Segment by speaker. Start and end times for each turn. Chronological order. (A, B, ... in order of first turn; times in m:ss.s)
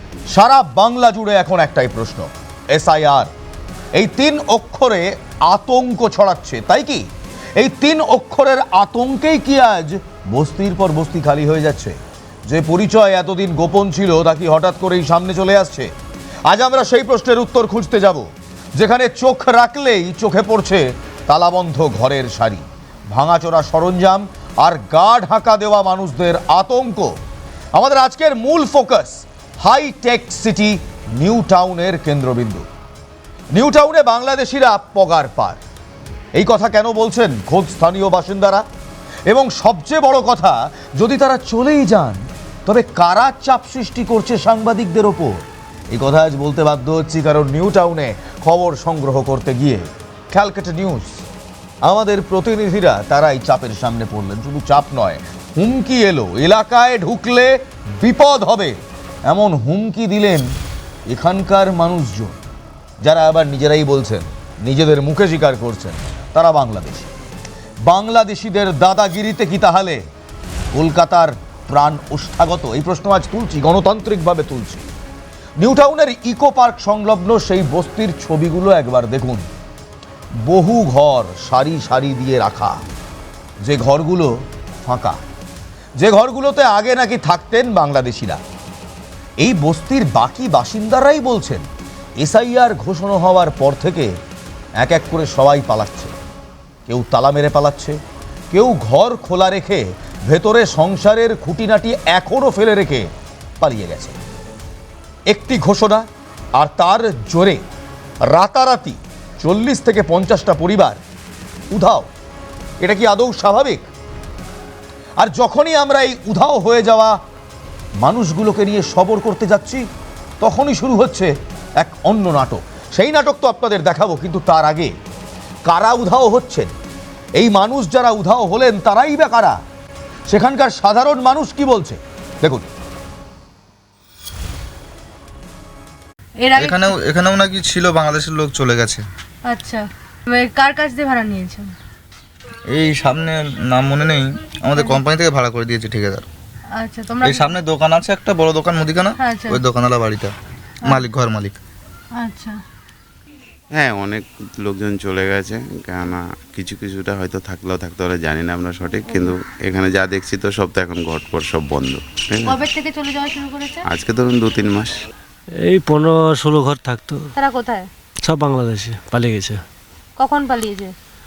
0:00.3-0:03.3 A
0:04.0-0:07.0 A
0:07.6-0:15.9 A
0:16.5-0:27.2 A
0:27.8-0:32.6 A
0:33.5-0:35.6 A
0:36.4-0:38.6 A
0:39.3-0:51.3 A
0:51.8-1:00.5 A
1:01.1-1:02.4 A
1:03.0-1:07.1 A
1:07.9-1:10.0 A
1:10.8-1:14.9 A
1:15.6-1:19.4 A
1:20.4-1:22.8 A
1:23.6-1:25.2 A
1:26.0-1:28.4 A
1:29.4-1:31.7 A
1:32.2-1:34.1 A
1:34.8-1:36.1 A
1:36.9-1:38.0 A
1:38.5-1:43.1 A
1:43.6-1:44.2 A
1:45.3-1:47.6 A
1:48.3-1:51.0 A
1:51.7-1:52.1 A
1:52.8-1:53.9 A
1:55.2-1:57.2 A
1:58.0-1:59.8 A
2:00.4-2:04.9 A
2:05.7-2:06.7 A
2:07.4-2:09.6 A
2:10.3-2:12.6 A
2:16.4-2:17.0 B
2:16.6-2:19.0 C
2:19.5-2:21.7 B
2:22.7-2:26.3 C
2:24.8-2:25.0 B
2:26.8-2:27.6 B
2:27.2-2:30.3 C
2:29.2-2:29.6 B
2:30.9-2:31.6 C
2:32.2-2:32.6 B
2:33.8-2:42.6 D
2:42.4-2:43.8 B
2:43.9-2:45.1 D
2:45.6-2:47.3 E
2:47.4-2:47.9 B
2:48.2-2:49.6 E
2:50.2-2:50.9 B